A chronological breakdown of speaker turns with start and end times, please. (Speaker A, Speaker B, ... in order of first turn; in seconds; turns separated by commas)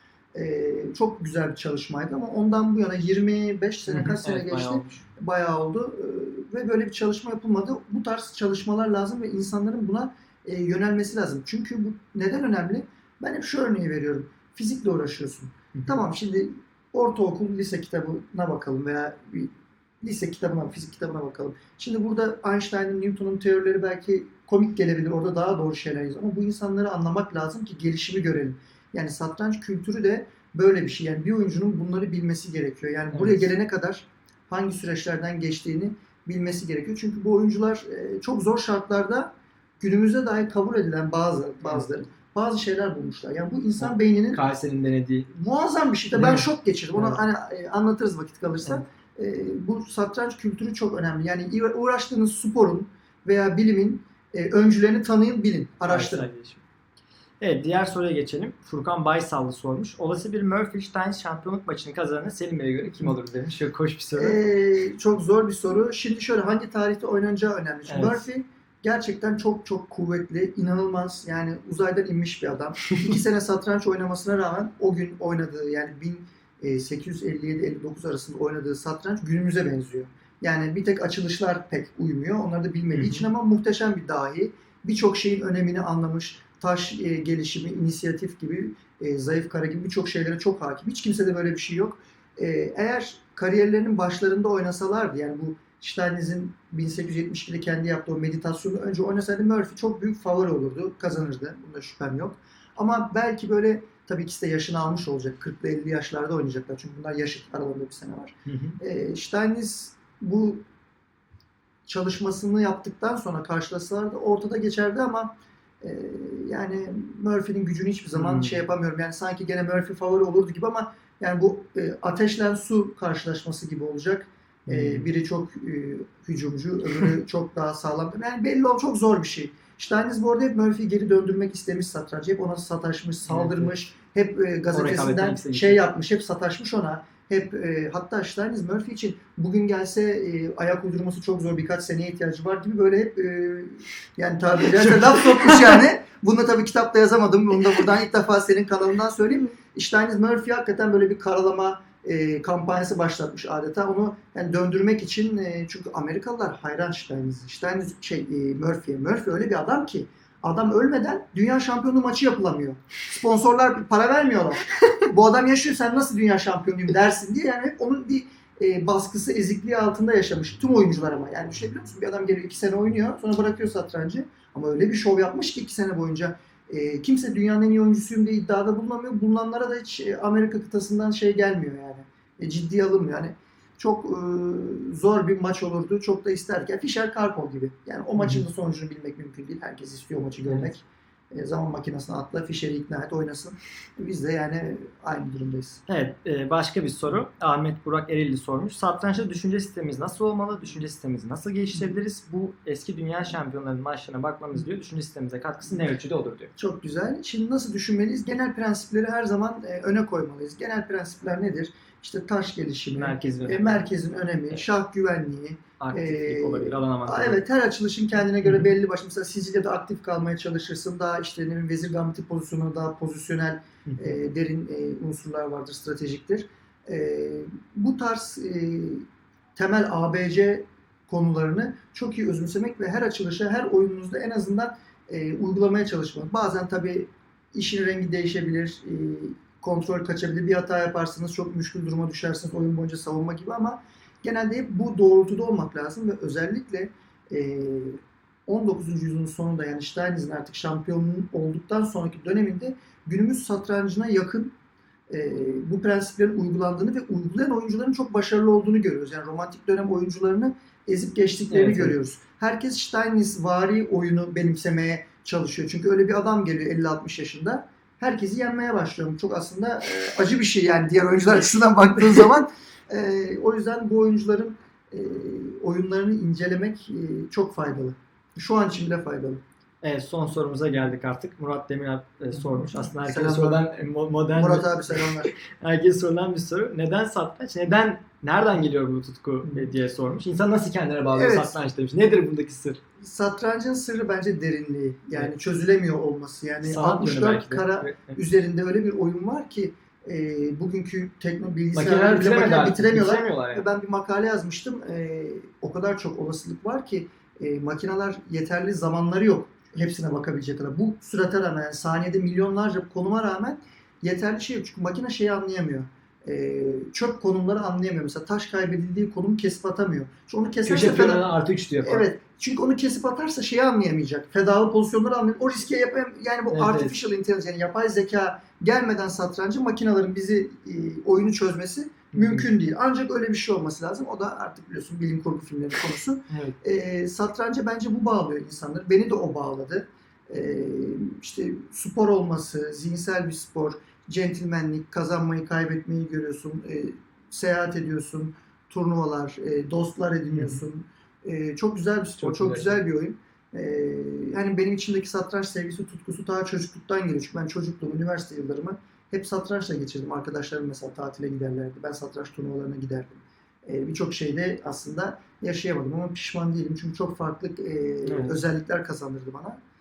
Speaker A: 0.3-44.4, Speaker B: 3.9-5.0, Speaker B: 15.7-16.0, Speaker B: 33.1-33.5, Speaker B: 43.8-45.3, Speaker A: 45.3-56.3, Speaker B: 46.1-47.2, Speaker B: 55.8-56.6, Speaker B: 57.4-64.4, Speaker A: 64.2-110.6, Speaker B: 67.8-68.2, Speaker B: 82.9-83.3, Speaker B: 108.5-108.8, Speaker A: 111.8-195.8, Speaker B: 118.1-118.6, Speaker B: 124.7-125.1, Speaker B: 133.2-133.7, Speaker B: 134.7-135.8, Speaker B: 188.2-188.4, Speaker B: 195.9-206.5, Speaker A: 206.6-254.5, Speaker B: 212.9-213.8, Speaker B: 215.8-217.4, Speaker B: 218.4-218.7, Speaker B: 223.8-224.2, Speaker A: 255.1-279.4, Speaker B: 261.5-261.9, Speaker B: 279.8-292.8, Speaker A: 282.9-283.7, Speaker A: 284.3-285.3, Speaker A: 291.1-291.6, Speaker A: 293.0-369.6, Speaker B: 296.6-298.2, Speaker B: 301.7-303.6, Speaker B: 320.6-322.1, Speaker B: 326.5-327.0, Speaker B: 332.1-332.5, Speaker B: 336.3-336.5, Speaker B: 350.3-350.6, Speaker B: 352.2-352.8, Speaker B: 368.1-368.4